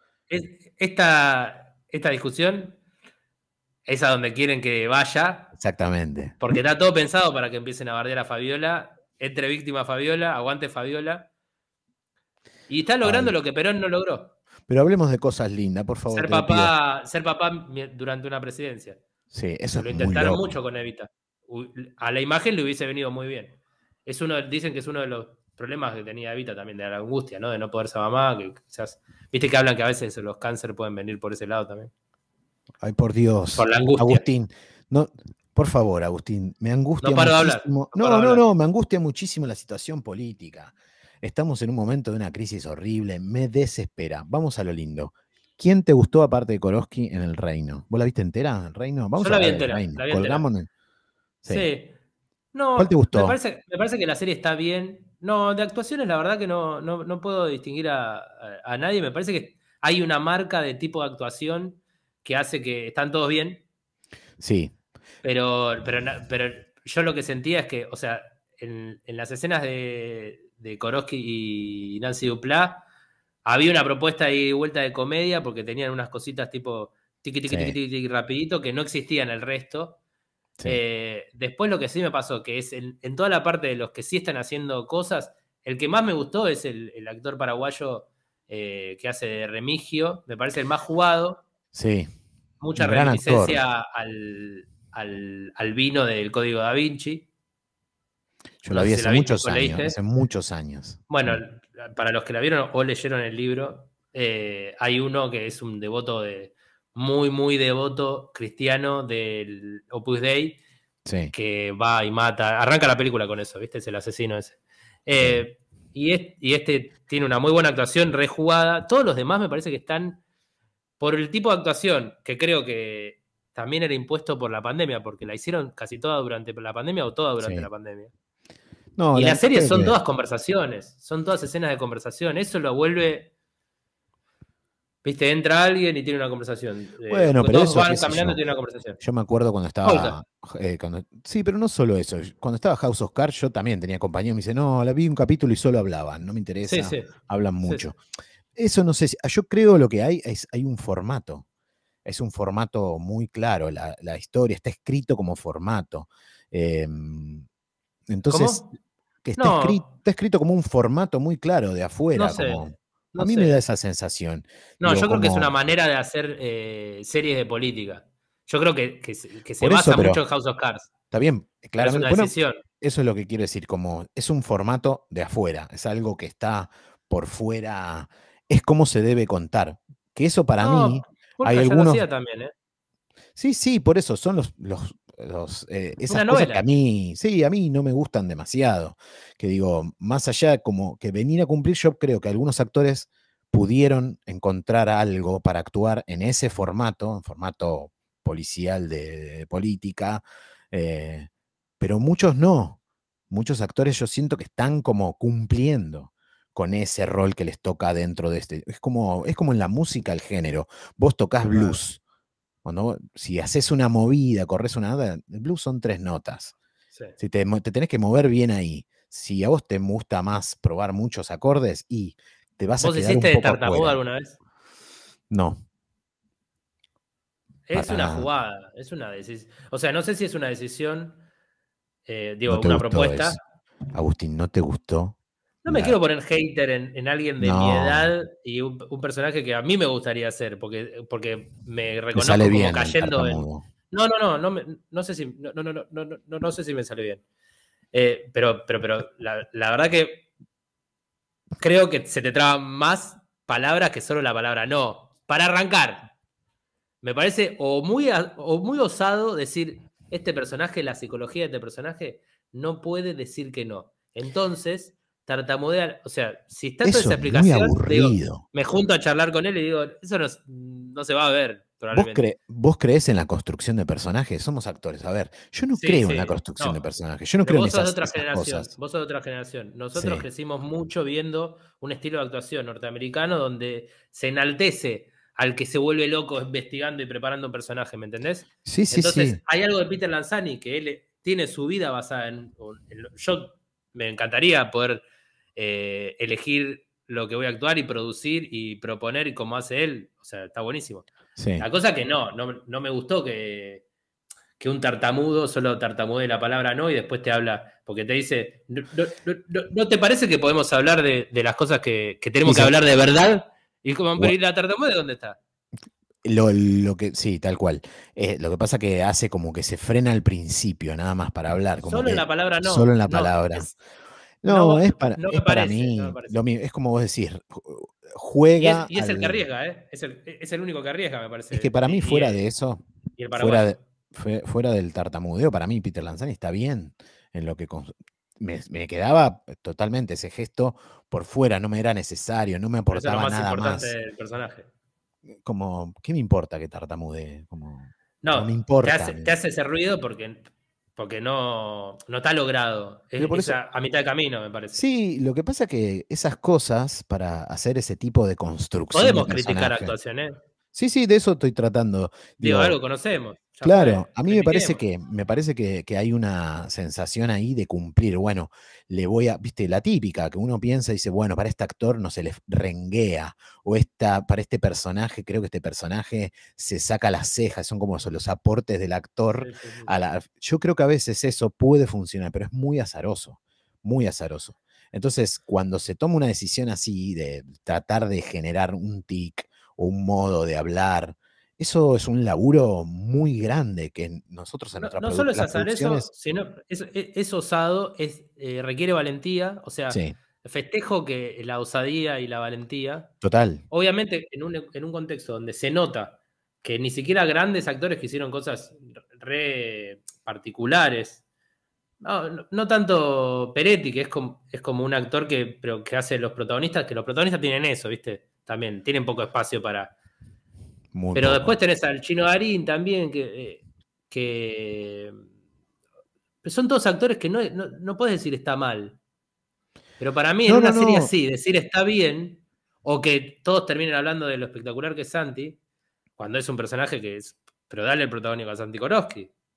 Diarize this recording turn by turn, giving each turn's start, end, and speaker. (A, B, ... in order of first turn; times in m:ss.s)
0:00.3-0:02.8 A
0:03.8-0:05.5 A
0:05.5-0:06.4 B
0:06.4-0:11.3 A
0:12.7-0:14.3 A
0:13.0-0:13.3 B
0:14.7-0:16.7 B
0:16.1-0:19.0 A
0:19.3-0:20.6 B
0:19.7-0:31.9 A
0:32.8-0:50.7 B
0:33.6-0:34.2 A
0:37.0-0:38.4 A
0:49.2-0:50.4 A
0:51.4-0:51.7 B
0:51.5-0:51.9 A
0:52.5-1:03.6 A
0:52.8-0:53.4 B
1:04.4-1:04.7 B
1:05.2-1:12.8 A
1:13.4-1:20.0 A
1:17.5-1:17.8 B
1:20.6-1:31.4 A
1:31.7-1:32.1 B
1:32.6-1:37.2 A
1:32.8-1:33.6 B
1:38.6-1:41.4 B
1:38.7-1:40.0 A
1:41.1-1:50.6 A
1:51.0-1:51.3 B
1:51.3-2:00.2 A
2:01.0-2:08.1 A
2:07.4-2:07.7 B
2:09.0-2:10.0 B
2:09.1-2:13.3 A
2:15.0-2:19.0 A
2:17.1-2:18.4 B
2:19.0-2:28.0 B
2:19.8-2:20.2 A
2:26.6-2:27.1 A
2:27.6-2:27.9 A
2:28.5-2:31.4 B
2:32.0-2:37.5 B
2:38.1-2:38.6 B
2:38.3-2:38.7 A
2:39.2-2:45.6 B
2:39.4-2:39.8 A
2:42.1-2:43.6 A
2:44.8-2:50.9 A
2:49.6-2:50.2 B
2:51.1-3:02.0 B
2:51.8-2:52.6 A
3:00.6-3:02.5 A
3:03.4-3:21.3 B
3:06.1-3:06.6 A
3:21.8-3:22.8 B
3:23.3-3:32.0 B
3:31.5-3:31.8 A
3:32.6-3:36.5 B
3:37.2-3:44.0 B
3:42.8-3:44.4 A
3:45.3-3:45.6 B
3:47.7-3:51.2 A
3:47.7-3:48.3 B
3:52.0-3:53.4 A
3:52.5-3:53.4 B
3:53.9-3:55.9 B
3:55.6-4:07.2 A
3:57.4-3:58.1 B
4:02.1-4:03.6 B
4:07.9-4:10.3 A
4:11.6-4:16.1 A
4:17.0-4:32.3 A
4:26.8-4:28.4 B
4:31.9-4:38.7 B
4:35.7-4:36.8 A
4:37.4-4:55.0 A
4:39.9-4:40.2 B
4:48.6-4:49.4 B
4:55.5-5:01.1 A
5:01.4-5:01.6 B
5:01.6-5:03.8 A
5:04.6-5:15.4 A
5:12.4-5:12.7 B
5:16.2-5:23.7 B
5:21.8-5:23.8 A
5:24.4-5:29.4 B
5:24.4-5:26.4 A
5:28.6-5:32.4 A
5:31.5-5:44.0 B
5:33.2-5:33.8 A
5:42.9-5:44.7 A
5:45.3-5:49.3 B
5:48.2-5:54.8 A
5:53.2-5:53.6 B
5:54.7-5:59.9 B
5:58.9-6:00.4 A
6:00.7-6:02.8 B
6:02.4-6:04.8 A
6:03.6-6:36.1 B
6:19.4-6:19.9 A
6:34.8-6:43.1 A
6:39.9-6:40.1 B
6:43.2-6:43.6 B
6:43.7-6:51.2 A
6:52.0-6:59.9 A
7:00.9-7:01.6 B
7:01.1-7:05.2 A
7:06.4-7:09.0 A
7:10.0-7:15.6 A
7:10.5-7:11.1 B
7:16.2-7:19.3 A